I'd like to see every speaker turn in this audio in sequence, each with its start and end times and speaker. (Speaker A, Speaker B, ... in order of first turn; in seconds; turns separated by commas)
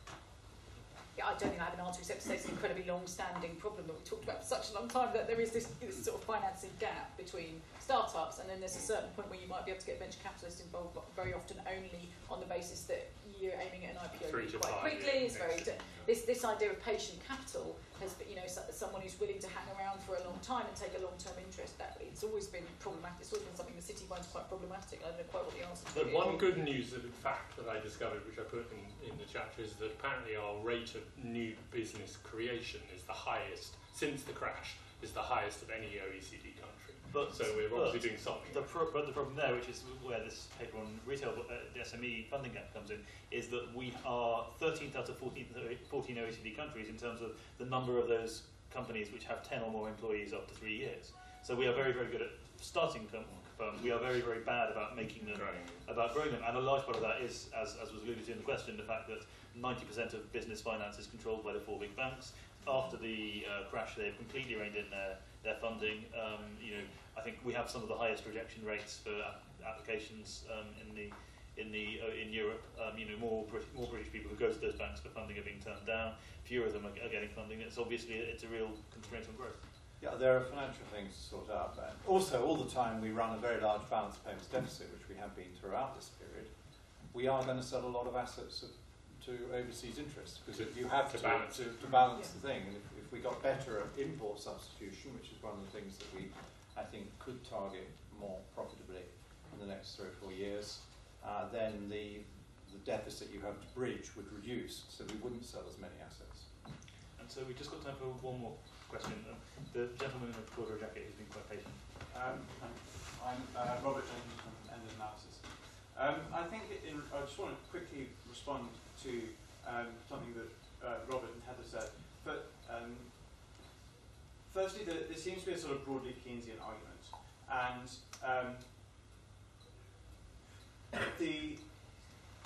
Speaker A: 1.1-26.5, Speaker B: 14.3-16.1, Speaker B: 25.9-38.8, Speaker C: 37.1-79.7, Speaker B: 55.3-55.8, Speaker D: 80.0-106.5, Speaker B: 90.5-92.0, Speaker C: 107.2-112.0, Speaker E: 112.1-123.6, Speaker E: 124.4-129.0, Speaker E: 131.1-132.2